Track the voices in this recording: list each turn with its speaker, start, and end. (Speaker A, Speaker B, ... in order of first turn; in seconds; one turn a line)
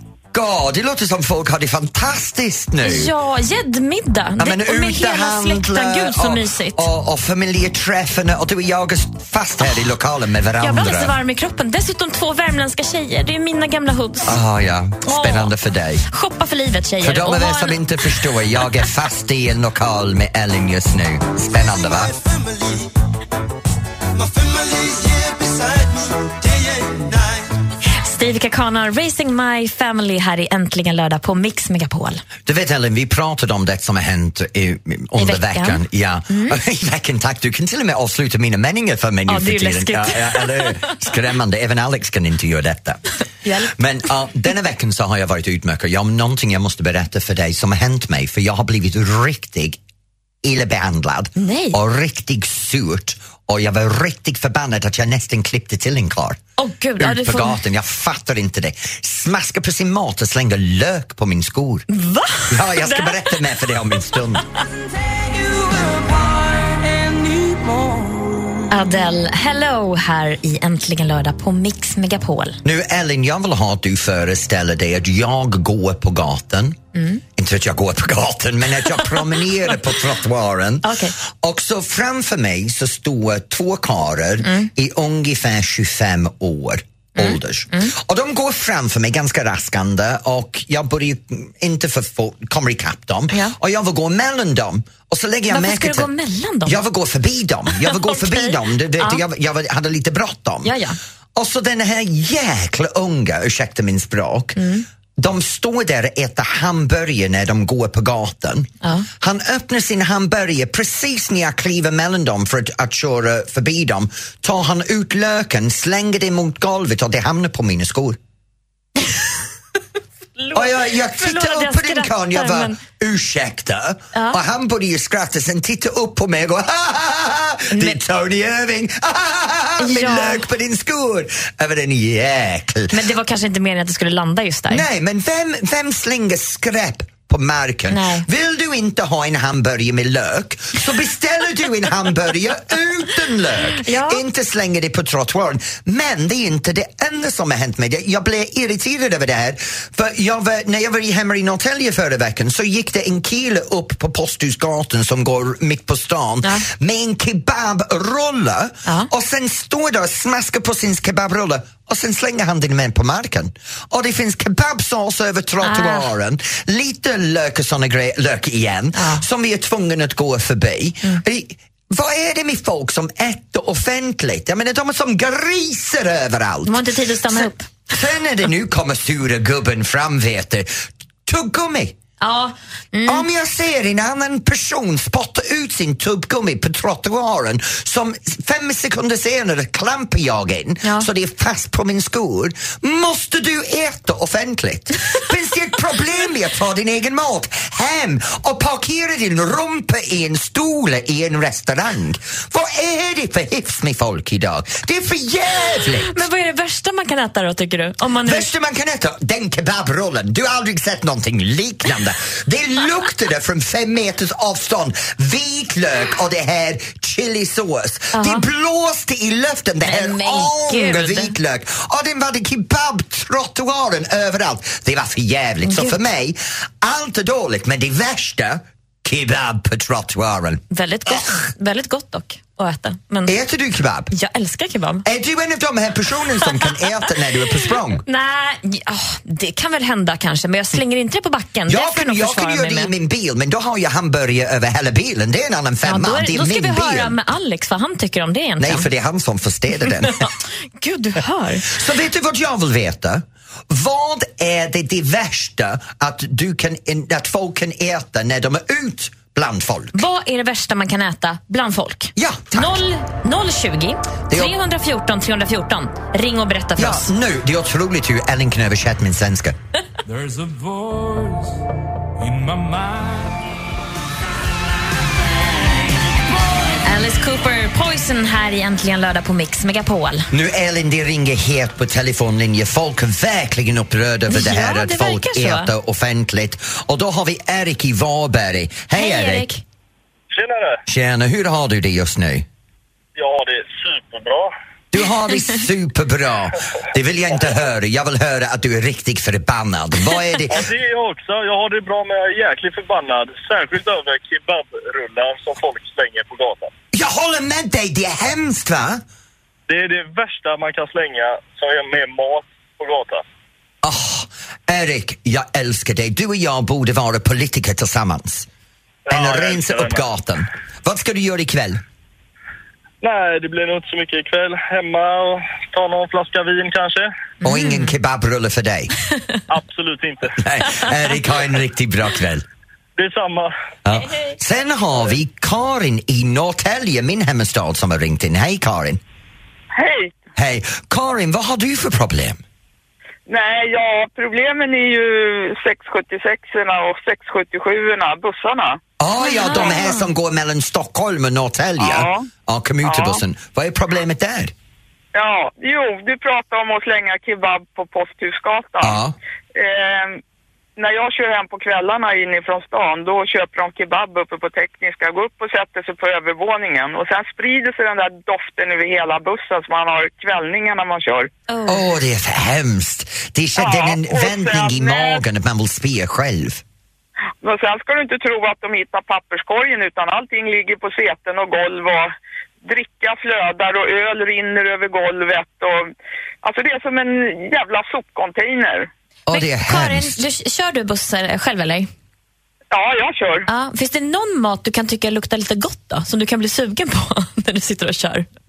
Speaker A: 0.3-3.1
Speaker B: 2.8-6.9
Speaker A: 4.4-11.2
Speaker B: 10.6-14.4
Speaker A: 14.2-16.0
Speaker B: 15.0-15.5
Speaker B: 16.1-18.7
Speaker A: 17.0-22.1
Speaker C: 21.9-22.8
Speaker C: 24.2-27.4
Speaker B: 28.0-32.2
Speaker A: 32.5-43.0
Speaker B: 35.2-36.6
Speaker B: 39.3-41.0
Speaker B: 43.4-43.7
Speaker A: 43.7-49.8
Speaker A: 50.4-56.4
Speaker B: 51.4-51.8
Speaker B: 56.6-57.6
Speaker A: 57.0-61.9
Speaker B: 61.9-64.0
Speaker A: 62.5-64.4
Speaker C: 65.1-68.5
Speaker B: 68.7-72.6
Speaker A: 72.6-76.8
Speaker B: 77.0-77.2
Speaker A: 77.4-96.1
Speaker B: 80.8-81.1
Speaker B: 84.4-84.7
Speaker B: 87.2-87.9
Speaker B: 95.5-96.8
Speaker A: 96.7-100.7
Speaker B: 97.7-99.2
Speaker B: 100.6-101.0
Speaker A: 101.3-104.6
Speaker B: 104.6-104.9
Speaker A: 105.2-118.2
Speaker B: 108.8-109.1
Speaker B: 120.4-122.8
Speaker A: 120.5-133.0
Speaker B: 124.1-124.4
Speaker B: 127.7-128.0
Speaker B: 129.8-130.4
Speaker B: 132.9-134.8
Speaker A: 134.7-182.0
Speaker B: 137.9-138.3
Speaker B: 143.8-144.2
Speaker B: 165.6-166.1
Speaker B: 169.0-169.2
Speaker B: 176.7-177.7
Speaker B: 182.2-183.3
Speaker A: 183.1-206.2
Speaker B: 205.8-208.5
Speaker A: 208.2-231.3
Speaker B: 218.1-218.5
Speaker B: 219.8-221.3
Speaker B: 225.6-226.0
Speaker B: 230.7-233.4
Speaker A: 233.3-234.1
Speaker B: 234.1-235.1
Speaker A: 235.1-238.0
Speaker B: 238.0-242.9
Speaker A: 241.7-247.2
Speaker B: 245.8-248.9
Speaker A: 248.6-250.3
Speaker B: 250.2-251.8
Speaker A: 251.7-260.0
Speaker B: 259.9-267.1
Speaker A: 262.2-262.8
Speaker A: 266.8-269.6
Speaker C: 270.1-271.6
Speaker C: 272.2-273.3
Speaker B: 276.8-280.3
Speaker A: 280.3-289.5
Speaker B: 284.3-285.7
Speaker B: 288.9-289.6
Speaker D: 290.3-290.8
Speaker A: 290.9-292.5
Speaker D: 293.2-294.5
Speaker A: 294.9-300.6
Speaker D: 300.5-306.7
Speaker A: 306.9-309.0
Speaker D: 309.7-313.2
Speaker A: 313.8-318.5
Speaker D: 319.1-320.0
Speaker A: 319.1-321.8
Speaker D: 323.0-327.1
Speaker B: 327.4-327.9
Speaker A: 327.4-328.9
Speaker D: 329.5-330.4
Speaker A: 330.4-332.5
Speaker D: 333.0-333.5
Speaker A: 333.9-339.0
Speaker E: 339.8-340.1
Speaker A: 340.4-342.4
Speaker E: 343.3-348.8
Speaker A: 349.0-354.5
Speaker B: 349.2-350.1
Speaker E: 351.8-352.3
Speaker E: 352.8-353.2
Speaker E: 355.1-359.0
Speaker A: 358.8-359.2
Speaker E: 359.6-360.2
Speaker E: 360.8-371.3
Speaker B: 371.5-371.8
Speaker A: 371.7-376.6
Speaker E: 373.6-375.2
Speaker E: 377.4-382.1
Speaker E: 382.6-385.9
Speaker E: 386.4-388.9
Speaker A: 389.3-390.2
Speaker B: 389.3-391.9
Speaker E: 392.7-393.5
Speaker B: 393.5-398.3